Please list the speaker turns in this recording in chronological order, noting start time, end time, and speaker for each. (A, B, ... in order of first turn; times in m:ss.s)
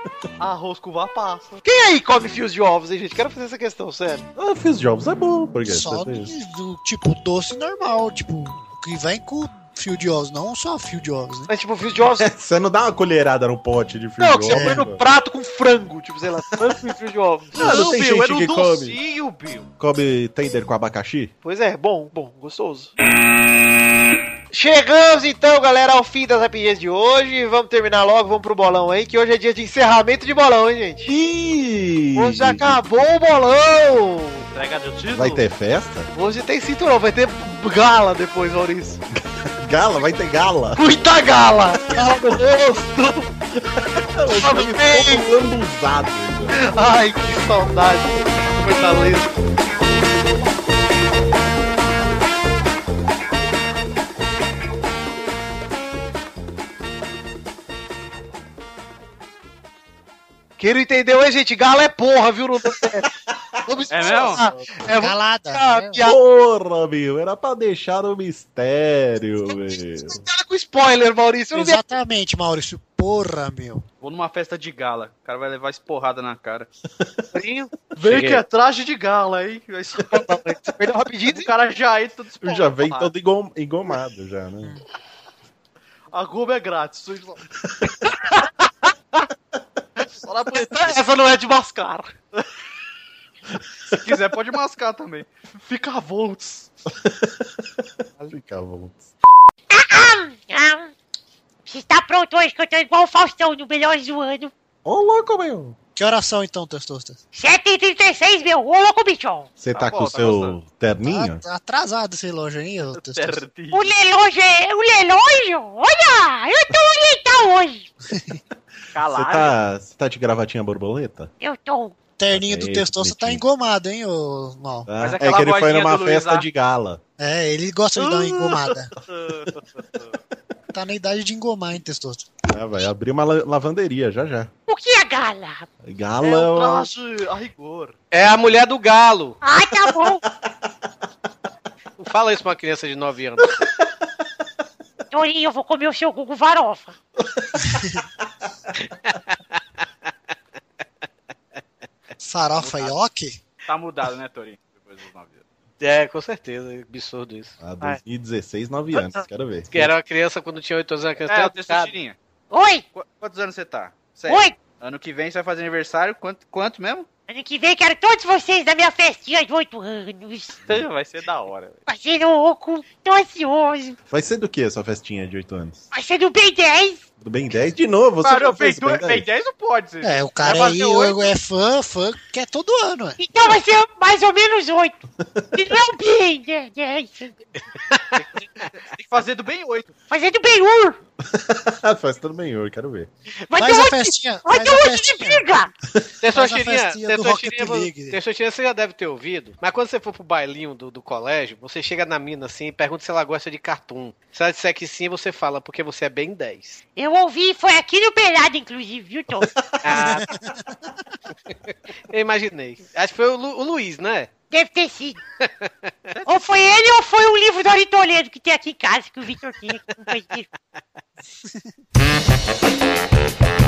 0:00.4-0:01.6 A
0:01.6-0:04.2 B
0:04.4-0:06.3 C
0:05.7-0:11.5 D
0:11.5-0:12.3 B
0:12.2-0:15.0 C
0:14.2-0:17.9 B
0:14.5-0:14.8 D
0:17.6-0:19.0 C
0:17.6-0:19.7 A
0:19.8-0:21.3 C
0:21.4-0:22.9 B
0:24.5-0:31.1 B
0:31.1-0:32.8 C
0:32.2-0:34.4 B
0:34.5-0:35.4 A
0:35.1-0:36.1 C
0:36.1-0:39.0 B
0:39.3-0:40.8 C
0:40.8-0:43.3 B
0:43.7-0:46.6 C
0:44.3-0:45.3 B
0:46.5-0:49.3 B
1:00.6-1:03.1 B
1:03.6-1:06.2 B
1:03.9-1:04.4 A
1:04.8-1:06.0 D
1:06.0-1:10.2 C
1:10.0-1:11.8 B
1:11.5-1:13.8 D
1:14.0-1:16.7 A
1:17.3-1:17.7 B
1:18.0-1:20.3 A
1:18.1-1:18.4 E
1:20.1-1:21.5 B
1:21.3-1:23.1 A
1:22.4-1:24.8 C
1:26.1-1:27.4 A
1:28.0-1:28.5 B
1:30.2-1:31.0 A
1:30.5-1:32.1 B
1:33.9-1:36.7 A
1:36.9-1:37.7 C
1:38.2-1:39.1 C
1:39.7-1:40.9 F
1:41.7-1:44.5 F
1:44.8-1:45.8 C
1:46.0-1:47.2 D
1:47.3-1:49.5 F
1:49.6-1:51.4 C
1:49.7-1:50.6 A
1:51.0-1:53.4 D
1:53.0-1:53.9 A
1:53.7-1:57.9 F
1:58.1-1:58.4 D
1:58.9-1:59.5 A
1:59.1-2:01.3 C
2:01.4-2:02.0 F
2:02.2-2:04.9 D
2:02.3-2:03.4 C
2:04.9-2:07.0 C
2:05.0-2:06.5 A
2:07.2-2:08.9 D
2:08.0-2:09.5 A
2:10.7-2:12.3 D
2:12.5-2:14.5 C
2:14.7-2:15.7 F
2:15.8-2:16.9 C
2:16.2-2:18.0 A
2:18.1-2:19.4 E
2:19.4-2:20.2 F
2:20.0-2:20.5 C
2:22.0-2:23.5 E
2:25.1-2:27.0 F
2:27.2-2:27.8 C
2:27.6-2:28.0 D
2:32.2-2:33.4 D
2:32.6-2:33.0 A
2:33.7-2:35.4 A
2:35.8-2:37.6 E
2:37.6-2:39.9 C
2:39.7-2:41.9 E
2:41.2-2:42.2 A
2:42.5-2:42.8 F
2:42.9-2:47.1 A
2:44.3-2:44.6 F
2:47.3-2:50.6 F
2:50.7-2:51.8 A
2:51.9-2:54.0 F
2:54.1-2:55.8 C
2:55.9-2:57.0 F
2:57.2-2:59.3 C
2:58.2-3:01.3 A
3:00.0-3:03.2 D
3:03.2-3:05.0 F
3:05.2-3:05.7 C
3:05.5-3:07.3 F
3:07.8-3:08.7 E
3:08.9-3:09.9 A
3:10.1-3:11.0 F
3:11.3-3:13.1 C
3:13.5-3:15.7 F
3:13.6-3:15.4 D
3:16.2-3:26.8 E
3:16.2-3:18.2 D
3:27.0-3:29.5 F
3:29.4-3:30.1 C
3:29.8-3:30.3 E
3:29.9-3:30.6 D
3:32.1-3:34.3 E
3:34.5-3:35.2 F
3:35.4-3:36.2 E
3:36.3-3:40.5 F